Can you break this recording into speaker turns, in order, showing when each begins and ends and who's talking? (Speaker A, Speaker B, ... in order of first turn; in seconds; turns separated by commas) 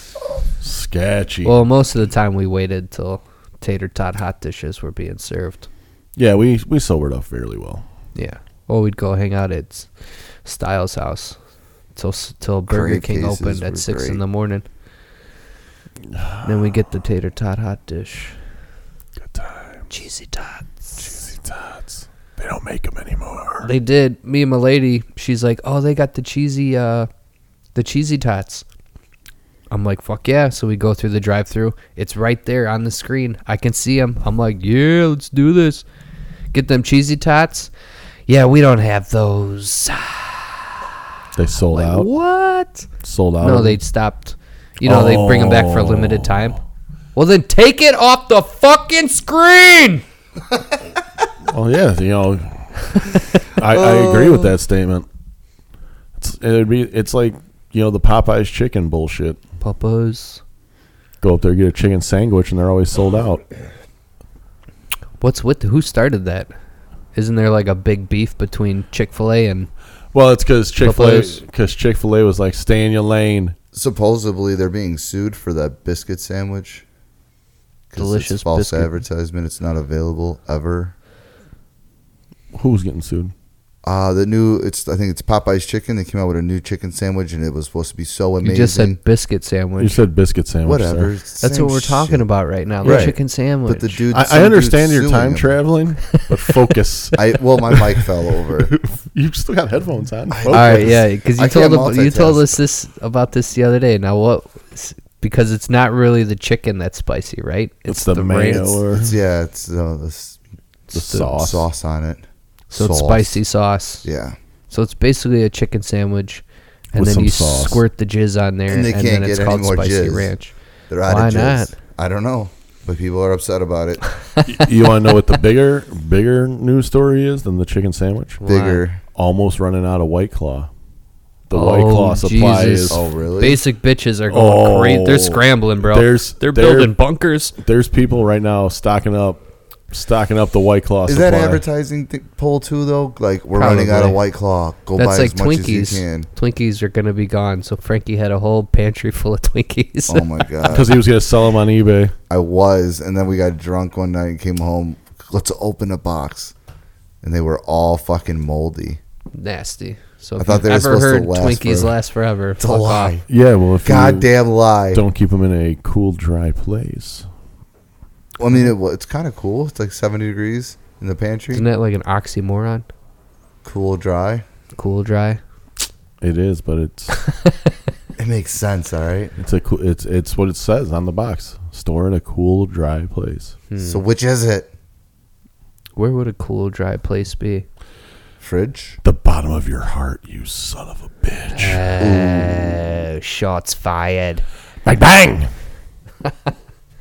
Speaker A: 0.6-1.6, Speaker B: 1.4-5.7, Speaker A: 6.2-7.8, Speaker B: 8.1-9.9, Speaker B: 10.4-11.4, Speaker B: 11.9-14.6, Speaker C: 12.7-14.2, Speaker A: 16.1-16.5, Speaker B: 16.4-18.4, Speaker A: 19.2-19.9, Speaker B: 19.9-21.1, Speaker A: 21.0-23.7, Speaker B: 23.6-27.1, Speaker B: 27.7-28.6, Speaker B: 29.7-35.8, Speaker B: 36.5-37.7, Speaker B: 38.3-40.6, Speaker A: 41.3-42.1, Speaker B: 41.7-42.9, Speaker A: 43.0-43.8, Speaker B: 43.4-46.6, Speaker A: 44.8-46.5, Speaker B: 47.1-50.0, Speaker A: 51.5-55.0, Speaker C: 53.7-54.5, Speaker A: 56.2-59.4, Speaker B: 59.6-60.4, Speaker A: 61.2-63.4, Speaker B: 65.2-66.5, Speaker B: 67.1-69.7, Speaker A: 70.1-73.5, Speaker B: 70.8-71.4, Speaker C: 73.7-76.8, Speaker C: 77.9-80.9, Speaker B: 78.0-78.9, Speaker A: 82.5-83.3, Speaker C: 83.8-89.0, Speaker B: 88.4-90.0, Speaker A: 89.8-91.1, Speaker C: 90.6-92.2, Speaker B: 91.4-94.0, Speaker C: 92.8-95.5, Speaker A: 92.8-93.1, Speaker A: 94.1-101.0, Speaker C: 97.2-98.7, Speaker C: 100.3-102.5, Speaker B: 100.5-108.8, Speaker A: 107.9-109.2, Speaker C: 108.9-110.4, Speaker A: 110.9-111.7, Speaker B: 111.0-111.3, Speaker C: 111.3-113.4, Speaker B: 112.7-114.0, Speaker C: 114.0-114.3, Speaker B: 114.7-120.5, Speaker A: 116.9-117.8, Speaker C: 118.7-120.3, Speaker C: 120.9-124.0, Speaker B: 121.0-121.8, Speaker A: 124.5-128.4, Speaker B: 128.4-128.8, Speaker C: 128.4-129.0, Speaker A: 129.1-130.7, Speaker A: 131.5-133.0, Speaker B: 131.5-137.5, Speaker C: 132.9-133.6, Speaker A: 134.3-136.9, Speaker A: 137.6-141.6, Speaker C: 141.1-146.3, Speaker B: 143.5-144.2, Speaker B: 144.9-150.3, Speaker C: 150.1-151.0, Speaker A: 150.6-152.1, Speaker C: 152.3-156.5, Speaker C: 157.2-159.0, Speaker B: 159.3-163.1, Speaker C: 160.4-161.9, Speaker C: 162.6-163.3, Speaker A: 163.3-164.3, Speaker C: 163.8-165.0, Speaker A: 164.9-167.2, Speaker C: 168.4-171.6, Speaker B: 171.5-172.8, Speaker C: 173.6-174.4, Speaker B: 174.7-175.4, Speaker A: 176.2-177.1, Speaker B: 177.2-177.5, Speaker C: 178.2-179.3, Speaker A: 179.4-183.6, Speaker B: 183.7-184.0, Speaker C: 183.8-184.7, Speaker B: 185.9-187.7, Speaker C: 188.4-189.0, Speaker A: 189.0-191.8, Speaker B: 191.5-194.4, Speaker C: 192.0-192.8, Speaker A: 194.8-195.5